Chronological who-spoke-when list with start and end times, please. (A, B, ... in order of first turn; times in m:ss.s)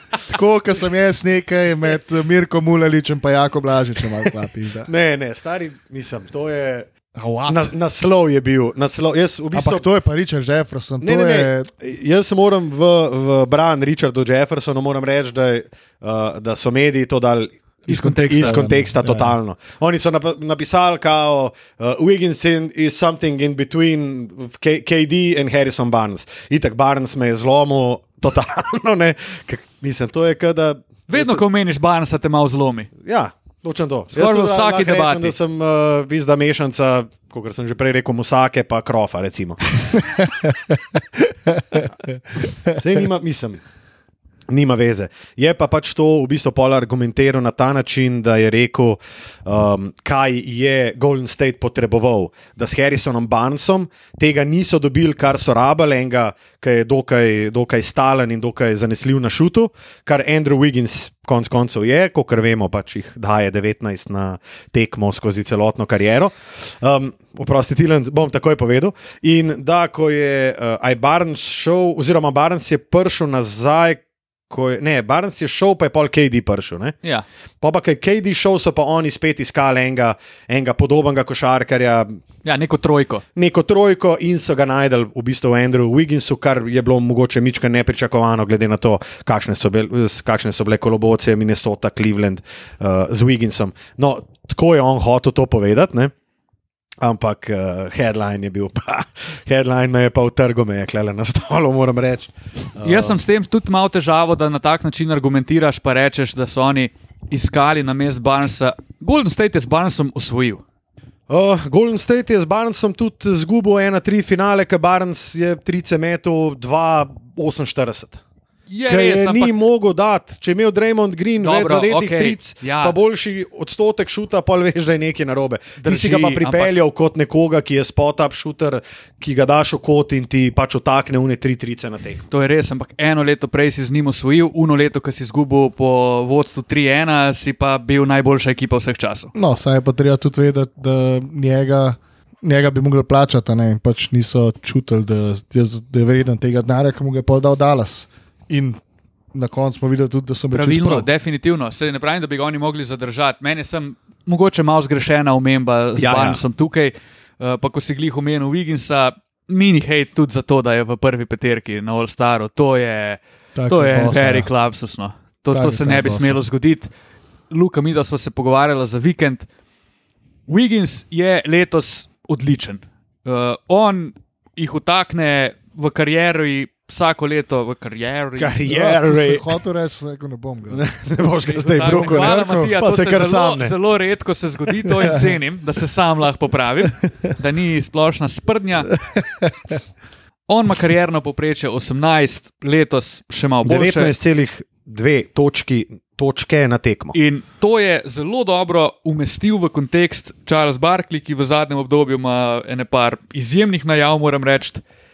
0:00.3-0:04.9 A
0:04.9-0:06.9 B
0:07.1-0:07.7 A
0:07.5-0:09.8 B
0:09.5-0:11.7 A
0:11.0-0:31.4 B
0:17.9-0:18.7 C
0:17.9-0:19.4 A
0:31.1-0:32.9 C
0:33.0-0:40.0 B
0:34.1-0:35.3 C
0:40.2-0:40.8 A
0:41.5-0:42.8 A
0:42.6-0:43.6 B
0:44.5-1:17.0 B
1:17.6-1:22.2 B
1:22.4-1:23.2 C
1:23.4-1:36.1 B
1:37.0-1:43.2 B
1:42.8-1:50.6 C
1:51.3-1:58.2 B
1:58.7-1:59.5 C
1:58.9-2:12.2 B
2:01.4-2:02.9 C
2:05.8-2:06.7 C
2:12.3-2:19.3 C
2:19.3-2:28.8 A
2:29.3-2:31.1 A
2:30.5-2:46.9 C
2:36.0-2:36.4 B
2:43.6-2:44.5 A
2:45.5-2:46.4 A
2:47.5-2:49.5 C
2:50.5-2:58.6 C
2:58.4-2:59.5 B
2:58.6-3:00.8 A
3:00.7-3:03.7 B
3:01.5-3:09.0 C
3:01.8-3:02.8 A
3:05.0-3:05.2 A
3:09.1-3:09.7 A
3:10.5-3:14.1 C
3:13.6-3:17.1 B
3:17.1-3:24.8 C